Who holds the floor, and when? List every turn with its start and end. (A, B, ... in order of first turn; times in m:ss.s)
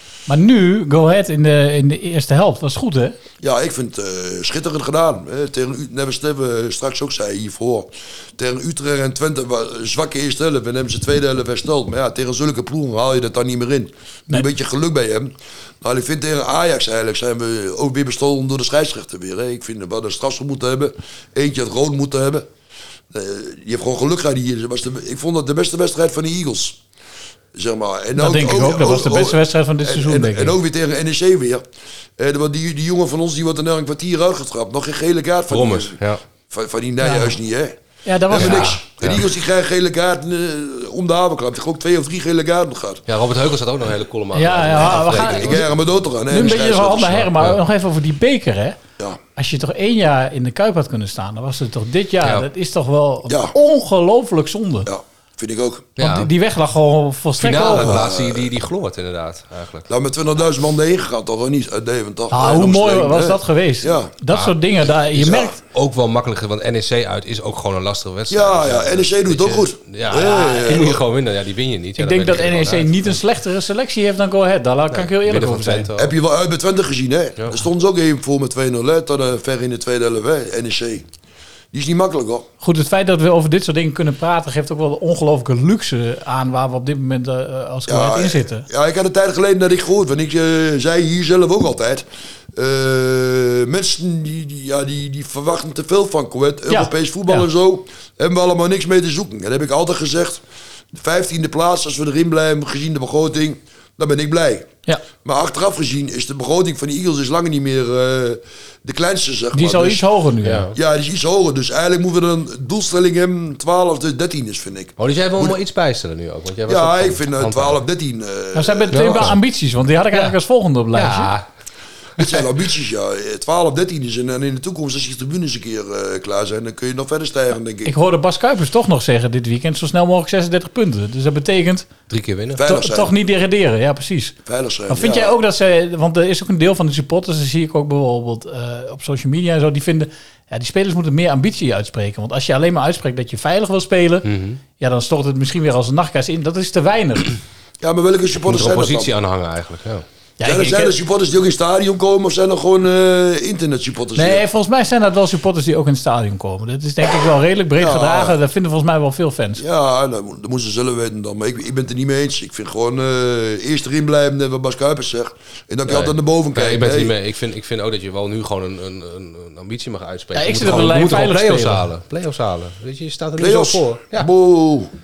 0:00.3-0:03.2 A
0:03.4-0:22.5 B
0:23.1-0:26.8 B
0:27.5-0:31.6 B
0:28.1-0:30.6 A
0:32.2-0:36.0 B
0:35.5-0:36.2 C
0:36.5-0:37.8 B
0:37.0-0:37.4 A
0:38.0-0:38.7 A
0:38.3-0:43.0 B
0:38.3-0:39.2 C
0:43.1-0:45.6 C
0:44.3-0:45.6 A
0:45.0-0:47.3 B
0:46.3-0:48.8 A
0:49.4-0:54.9 A
0:53.3-0:53.5 B
0:54.8-0:55.9 B
0:56.0-0:56.3 C
0:56.0-0:58.0 A
0:57.4-0:59.9 C
0:57.6-0:58.5 B
0:59.9-1:04.1 B
1:02.3-1:05.6 A
1:05.2-1:05.5 B
1:05.6-1:13.2 C
1:08.3-1:11.0 B
1:12.0-1:15.9 A
1:14.9-1:16.1 C
1:16.0-1:21.0 B
1:17.4-1:17.6 C
1:21.7-1:22.5 B
1:22.6-1:28.6 A
1:27.9-1:44.7 B
1:36.7-1:37.4 A
1:45.2-1:50.0 B
1:49.5-1:50.7 A
1:50.4-1:50.7 C
1:50.7-1:55.6 B
1:55.0-1:57.8 C
1:56.7-1:59.3 B
1:58.5-2:01.3 A
1:58.9-1:59.4 C
2:00.9-2:01.4 C
2:02.2-2:02.4 C
2:02.2-2:07.9 B
2:07.8-2:11.9 A
2:12.1-2:12.6 C
2:12.5-2:13.1 B
2:12.6-2:14.4 A
2:14.4-2:15.3 B
2:14.9-2:24.2 A
2:24.2-2:24.6 C
2:24.8-2:27.3 A
2:27.8-2:29.1 B
2:28.4-2:30.0 C
2:30.4-2:30.9 A
2:30.4-2:34.4 B
2:34.1-2:39.6 A
2:37.8-2:38.4 B
2:39.6-2:47.1 B
2:45.9-2:54.3 C
2:50.3-2:51.8 A
2:53.4-2:54.9 B